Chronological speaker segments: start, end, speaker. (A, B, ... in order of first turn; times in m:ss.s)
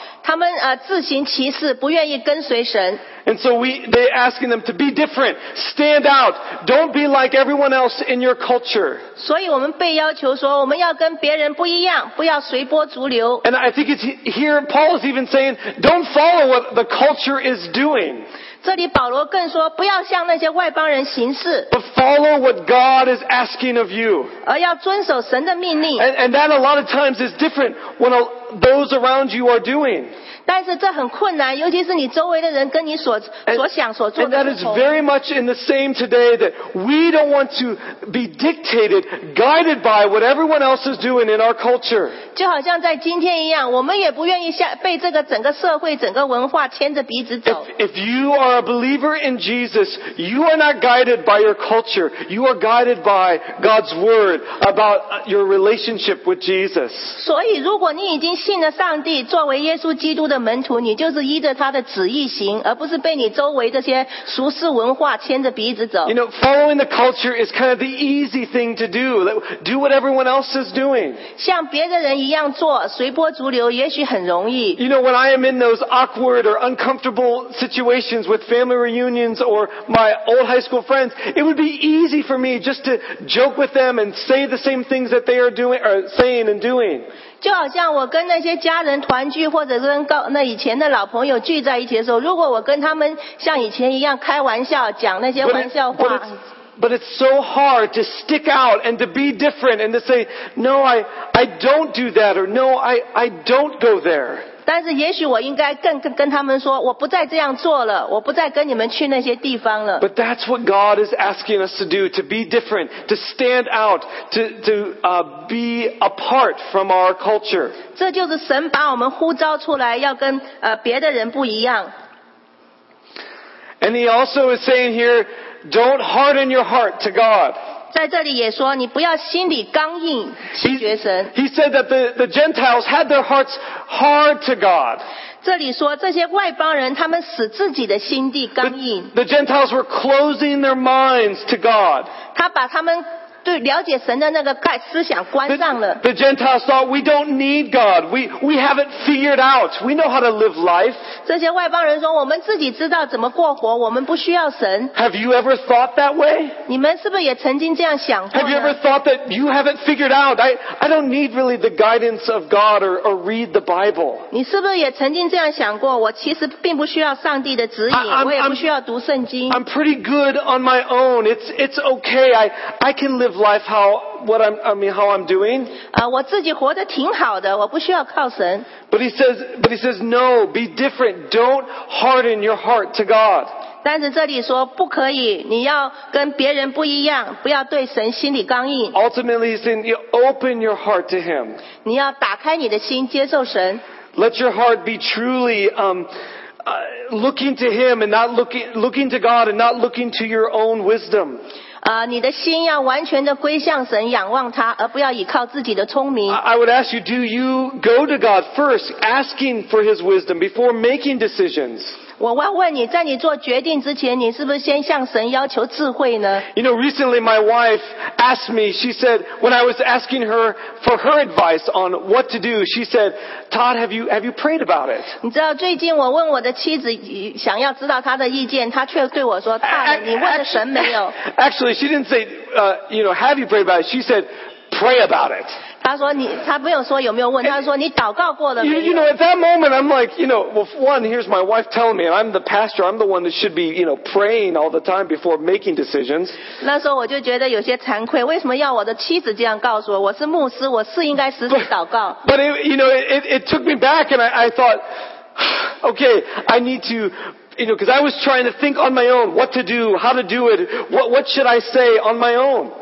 0:00.2-0:03.0 A
0:03.2-0:09.0 B
0:09.2-0:13.4 A
0:13.4-0:18.2 B
0:18.6-0:21.7 A
0:21.7-0:24.3 B
0:24.4-0:26.0 A
0:26.0-0:30.1 B
0:30.5-0:34.9 A
0:34.2-0:42.2 B
0:42.3-0:47.7 A
0:47.5-0:57.2 B
0:57.2-1:06.1 A
1:06.0-1:11.2 B
1:11.4-1:14.8 A
1:14.8-1:27.0 B
1:27.4-1:36.4 A
1:35.4-1:44.5 B
1:44.6-1:50.0 A
1:50.0-1:57.8 B
1:57.9-2:01.9 A
2:03.8-2:07.6 B
2:07.9-2:11.3 A
2:10.6-2:15.0 B
2:15.4-2:19.1 A
2:18.6-2:22.1 B
2:22.3-2:26.0 A
2:25.5-2:31.0 B
2:31.2-2:34.9 A
2:34.9-2:36.6 B
2:36.7-2:38.8 A
2:38.3-2:44.3 B
2:44.3-2:49.6 A
2:47.9-2:48.6 B
2:49.5-2:55.7 B
2:55.9-2:58.7 A
2:58.9-3:03.5 B
3:03.8-3:09.0 A
3:08.9-3:11.6 B
3:11.8-3:13.8 A
3:14.1-3:16.1 B
3:16.6-3:21.4 B
3:21.8-3:26.4 A
3:26.3-3:32.0 B
3:32.2-3:36.4 A
3:36.5-3:45.1 B
3:45.2-3:51.1 A
3:49.6-3:55.5 B
3:55.8-3:59.0 A
3:58.6-4:06.4 B
4:06.6-4:12.2 A
4:12.2-4:14.8 B
4:15.4-4:22.7 B